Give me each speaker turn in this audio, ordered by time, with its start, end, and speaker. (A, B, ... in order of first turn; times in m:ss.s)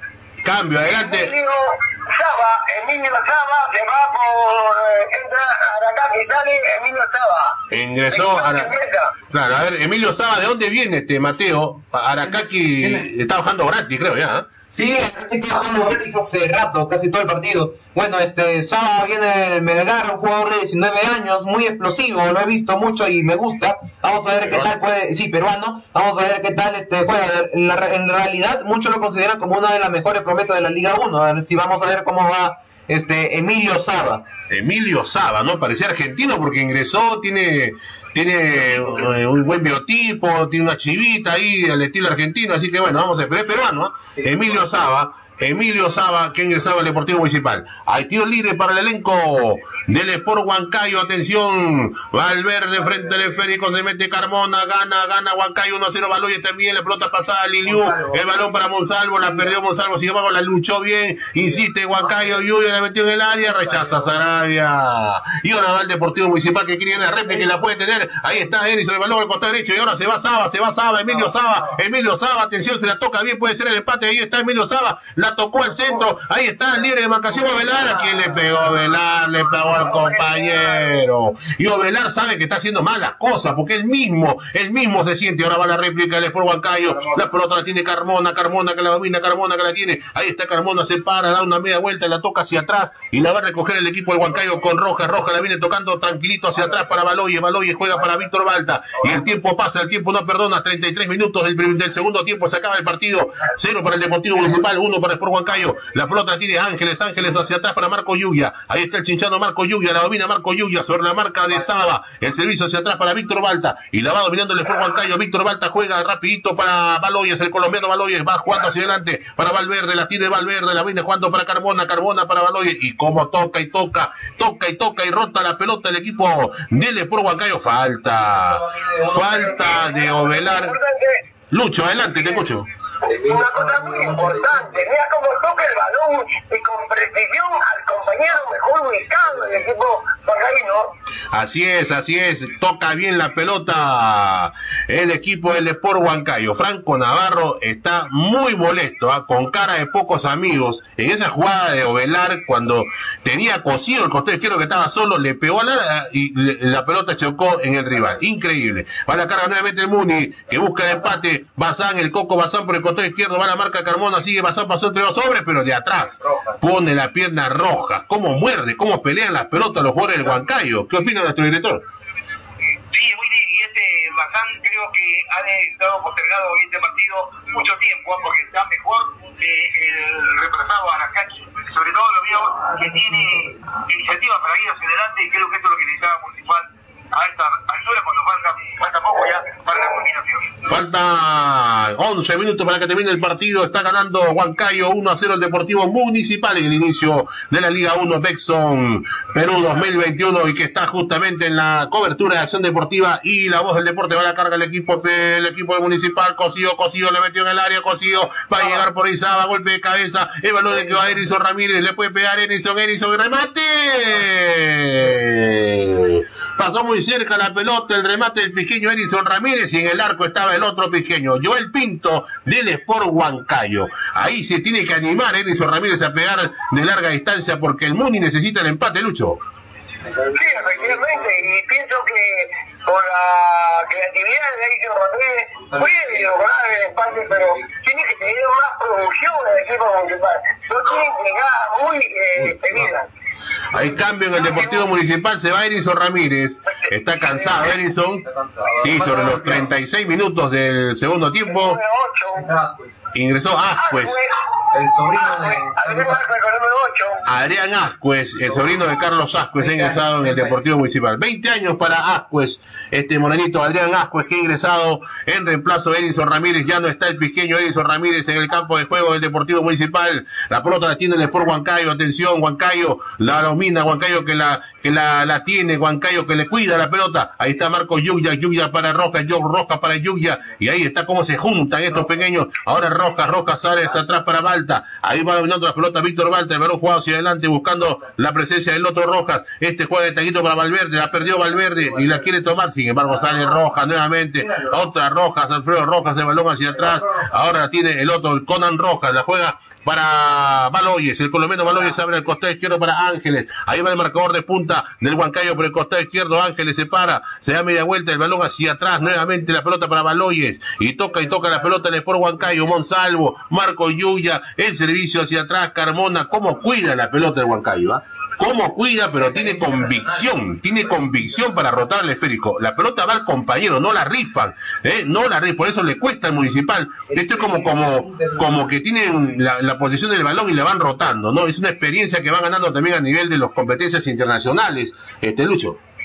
0:00.4-0:01.3 A
0:00.9-0:07.6 B
0:07.7-0:08.7 A
0:08.1-0:09.1 B
0:09.3-0:14.5 A
0:12.8-0:13.1 C
0:14.7-0:34.2 C
0:34.5-2:10.8 A
0:57.6-0:58.4 C
1:03.6-1:04.1 C
1:20.2-1:20.9 B
2:08.4-2:09.5 C
2:09.4-2:11.2 B
2:11.5-2:12.7 A
2:13.0-2:20.9 B
2:13.1-2:14.8 C
2:21.3-2:51.8 A
2:46.2-2:46.6 C
2:52.9-3:10.6 D
3:10.6-3:49.4 A
3:50.0-3:51.4 C
3:50.3-4:03.1 B
3:55.6-3:56.3 C
3:57.4-3:57.6 C
4:02.4-4:02.9 A
4:03.7-4:08.2 A
4:04.3-4:04.9 B
4:06.6-4:07.5 B
4:08.2-4:09.6 C
4:08.8-4:11.8 A
4:11.5-4:12.5 B
4:12.3-4:12.9 C
4:13.1-4:14.3 A
4:13.8-4:14.4 B
4:14.7-4:16.2 C
4:15.1-4:17.2 B
4:17.2-5:35.8 A
4:19.6-4:20.6 C
4:53.1-4:53.4 C
4:54.4-4:54.9 C
4:56.8-4:57.4 C
5:19.2-5:20.2 C
5:27.1-5:28.7 C